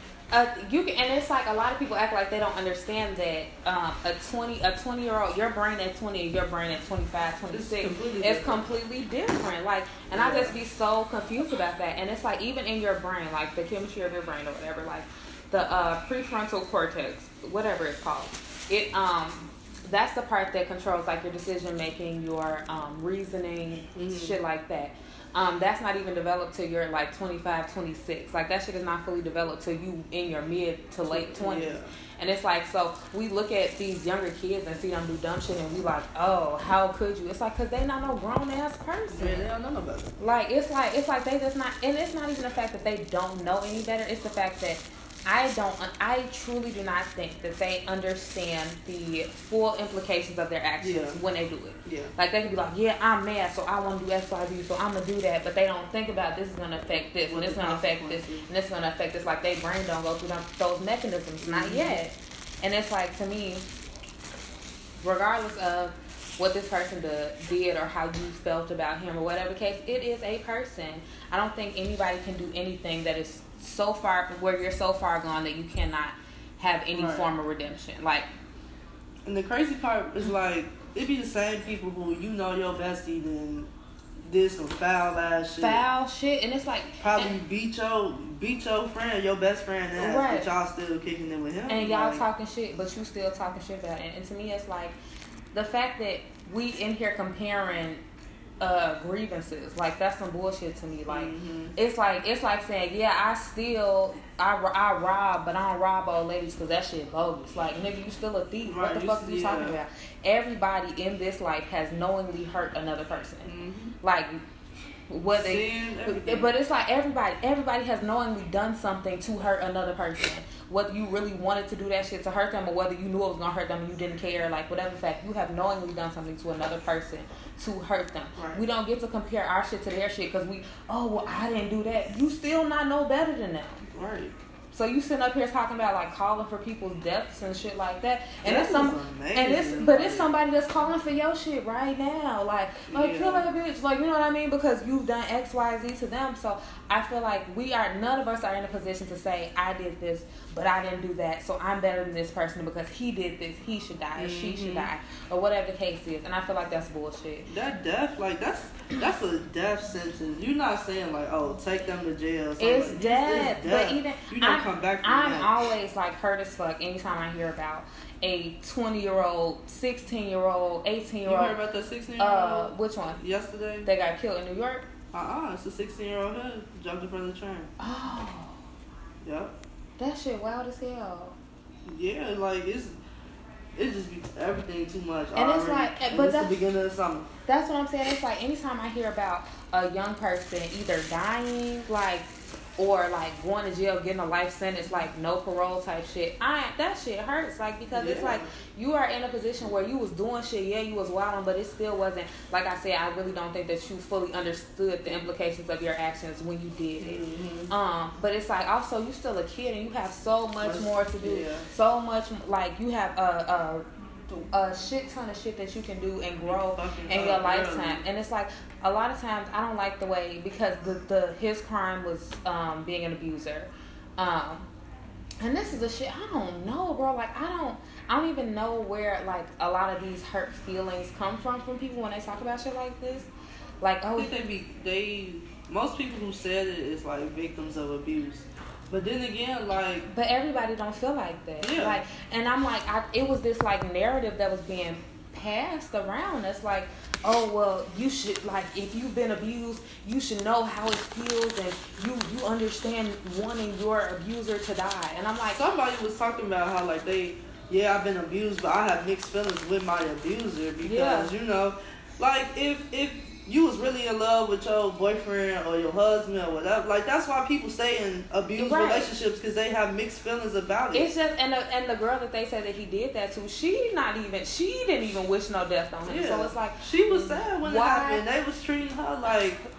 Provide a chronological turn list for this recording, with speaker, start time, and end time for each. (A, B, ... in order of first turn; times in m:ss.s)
0:00.3-0:39.5 A
0:07.5-0:08.6 B
0:10.1-0:10.6 B
0:23.9-0:24.4 B
0:31.1-0:31.9 B
0:39.1-0:40.1 B
0:40.2-1:03.6 A
0:50.8-0:51.2 B
0:51.8-0:52.1 B
0:57.3-0:58.4 B
1:01.4-1:02.0 B
1:05.0-1:18.2 A
1:16.9-1:17.3 B
1:19.2-1:23.7 B
1:24.3-1:25.8 B
1:25.6-1:27.3 A
1:27.0-1:32.2 B
1:30.0-1:30.5 A
1:31.7-1:34.9 A
1:35.5-1:38.0 A
1:38.6-1:53.5 A
1:41.1-1:41.7 B
1:48.6-1:49.8 B
1:53.4-1:53.9 B
1:54.0-1:54.4 A
1:55.1-2:13.8 A
1:55.4-1:56.5 B
2:08.4-2:08.6 B
2:13.9-2:14.3 B
2:14.7-2:37.5 A
2:18.4-2:20.3 B
2:22.9-2:23.5 B
2:34.2-2:34.9 B
2:37.5-2:45.6 B
2:42.6-2:51.6 A
2:51.2-2:53.9 B
2:52.2-2:53.2 A
2:53.8-2:54.8 A
2:55.1-2:57.7 B
2:57.8-2:58.6 A
2:59.2-2:59.5 B
3:00.0-3:01.3 A
3:01.8-3:02.9 B
3:03.8-3:07.3 B
3:05.3-3:06.6 A
3:07.5-3:44.6 A
3:17.9-3:18.5 B
3:27.0-3:27.7 B
3:30.6-3:31.7 B
3:36.4-3:38.0 B
3:45.4-3:53.3 A
3:53.8-3:54.3 A
3:54.2-4:00.1 B
4:00.1-4:15.6 A
4:01.6-4:02.0 B
4:15.6-4:31.1 B
4:20.8-4:21.3 A
4:28.6-4:29.1 A
4:30.9-4:38.2 A
4:36.0-4:39.6 B